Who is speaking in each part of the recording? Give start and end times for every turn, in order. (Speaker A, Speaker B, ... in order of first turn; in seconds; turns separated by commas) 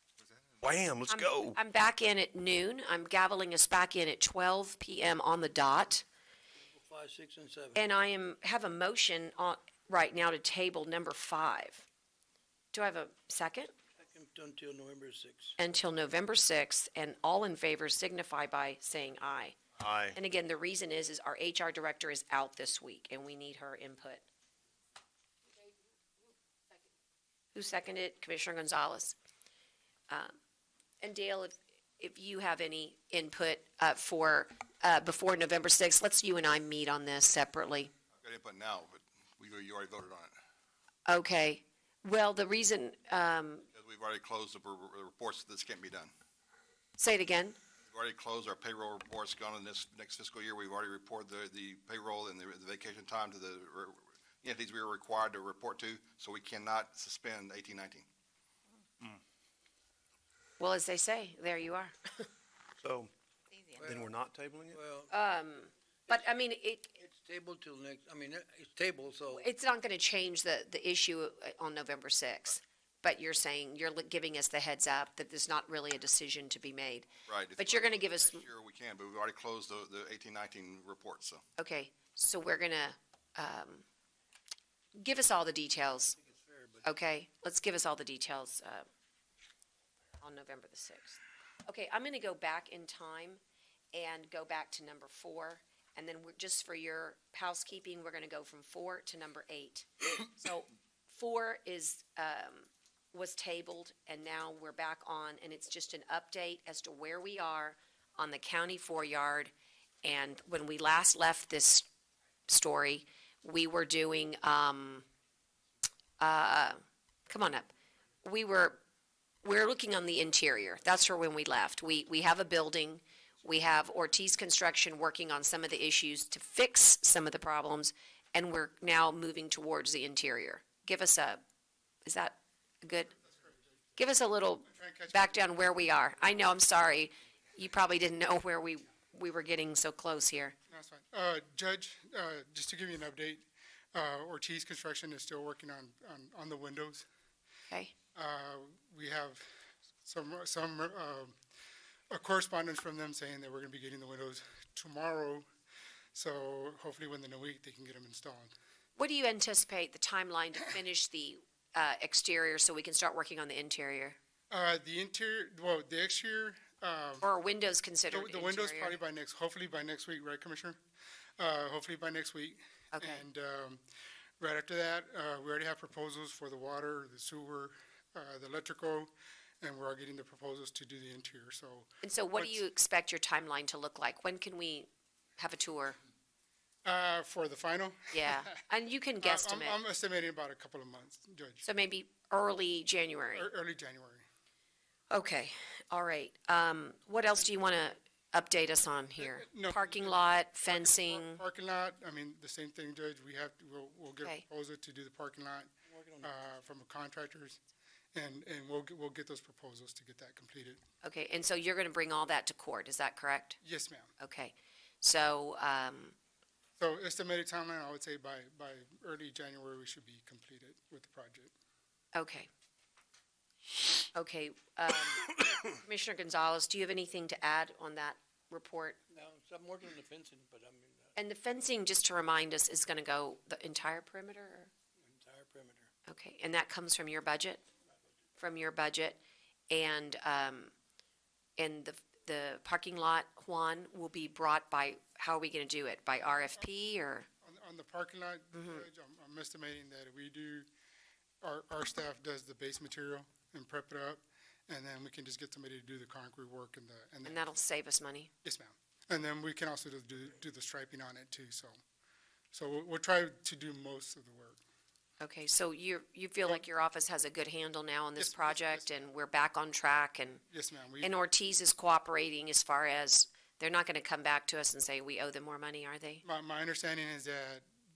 Speaker A: 0.6-1.6, Speaker B: 1.1-6.0, Speaker C: 6.6-7.8, Speaker B: 7.7-11.9, Speaker B: 12.7-13.7, Speaker C: 14.0-15.6, Speaker B: 15.6-19.6, Speaker A: 19.8-20.1, Speaker B: 20.1-24.3, Speaker B: 27.5-29.1, Speaker B: 30.1-30.4, Speaker B: 31.0-37.9, Speaker D: 38.2-40.3, Speaker B: 41.1-43.6, Speaker D: 43.7-46.1, Speaker B: 47.0-47.6, Speaker D: 47.9-58.1, Speaker B: 60.6-62.3, Speaker A: 62.8-63.1, Speaker C: 63.8-64.1, Speaker A: 63.8-64.8, Speaker C: 64.7-65.1, Speaker B: 65.1-67.0, Speaker C: 67.0-69.5, Speaker B: 69.3-77.1, Speaker D: 77.3-81.4, Speaker B: 77.6-78.4, Speaker B: 81.6-83.8, Speaker B: 85.0-86.2, Speaker C: 86.2-86.8, Speaker B: 86.8-88.8, Speaker B: 90.2-93.4, Speaker B: 93.9-109.5, Speaker B: 110.0-111.9, Speaker B: 112.5-115.0, Speaker B: 116.2-117.7, Speaker B: 118.2-118.8, Speaker B: 119.4-131.4, Speaker B: 132.1-133.1, Speaker B: 134.0-140.5, Speaker E: 134.7-135.5, Speaker E: 140.7-147.1, Speaker E: 148.1-149.5, Speaker E: 150.0-151.3, Speaker E: 152.1-155.4, Speaker E: 156.1-158.5, Speaker B: 159.0-164.2, Speaker E: 164.5-167.2, Speaker B: 167.2-169.0, Speaker E: 168.1-170.8, Speaker E: 171.4-173.8, Speaker B: 172.9-173.2, Speaker E: 174.4-182.6, Speaker B: 182.0-186.0, Speaker E: 186.8-188.6, Speaker B: 188.1-189.8, Speaker E: 189.2-191.6, Speaker B: 191.6-193.5, Speaker E: 193.3-194.2, Speaker B: 195.1-201.4, Speaker E: 199.2-207.6, Speaker C: 205.9-206.3, Speaker E: 208.1-210.8, Speaker B: 211.0-213.6, Speaker E: 213.6-214.1, Speaker B: 214.2-216.1, Speaker E: 216.8-221.5, Speaker B: 222.1-222.5, Speaker B: 224.1-229.0, Speaker C: 229.1-231.1, Speaker B: 231.2-234.7, Speaker C: 235.0-235.9, Speaker B: 236.1-237.6, Speaker B: 238.4-240.7, Speaker B: 241.6-247.3, Speaker E: 247.4-250.7, Speaker B: 248.6-248.8, Speaker E: 251.4-257.4, Speaker B: 257.2-258.3, Speaker E: 258.4-261.8, Speaker E: 262.5-264.6, Speaker B: 265.2-270.4, Speaker E: 268.2-269.0, Speaker E: 270.5-271.1, Speaker B: 271.0-276.2, Speaker E: 276.2-277.6